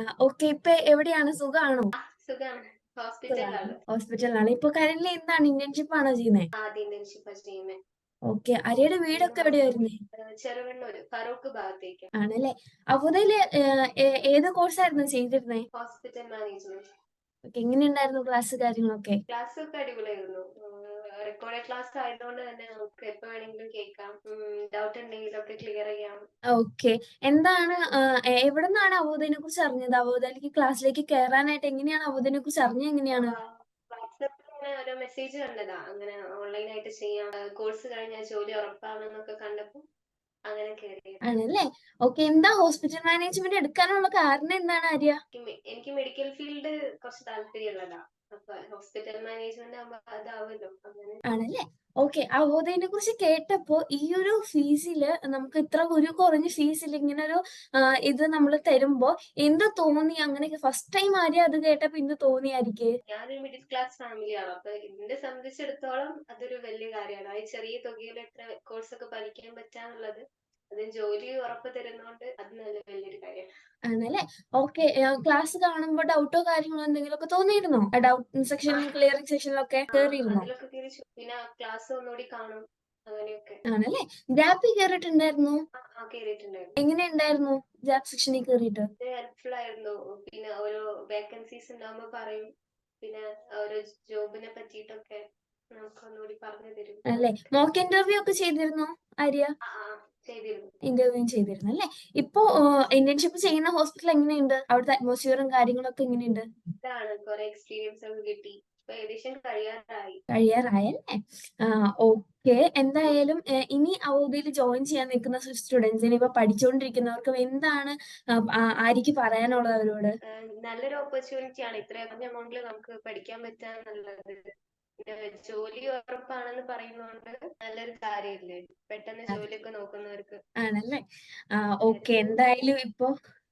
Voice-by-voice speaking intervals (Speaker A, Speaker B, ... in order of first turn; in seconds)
Speaker A: 0.2-1.9, 3.3-6.5, 8.3-10.0, 12.2-13.4, 14.0-15.7, 17.5-19.2, 26.5-27.8, 28.4-33.4, 41.3-45.2, 51.3-62.9, 73.9-80.5, 83.7-85.6, 86.8-88.9, 97.1-99.5, 100.9-106.5, 110.3-111.1, 111.7-117.9, 118.6-120.1, 130.6-131.0, 131.6-133.1
Speaker B: 2.1-3.8, 6.6-7.8, 9.1-12.1, 15.8-16.8, 19.3-26.2, 33.1-39.8, 40.5-41.2, 45.3-51.2, 63.1-73.5, 78.7-78.9, 79.9-83.6, 86.0-86.8, 89.0-92.5, 93.0-95.2, 95.8-97.5, 99.7-100.7, 106.8-110.2, 120.4-124.4, 125.0-130.4, 131.9-132.4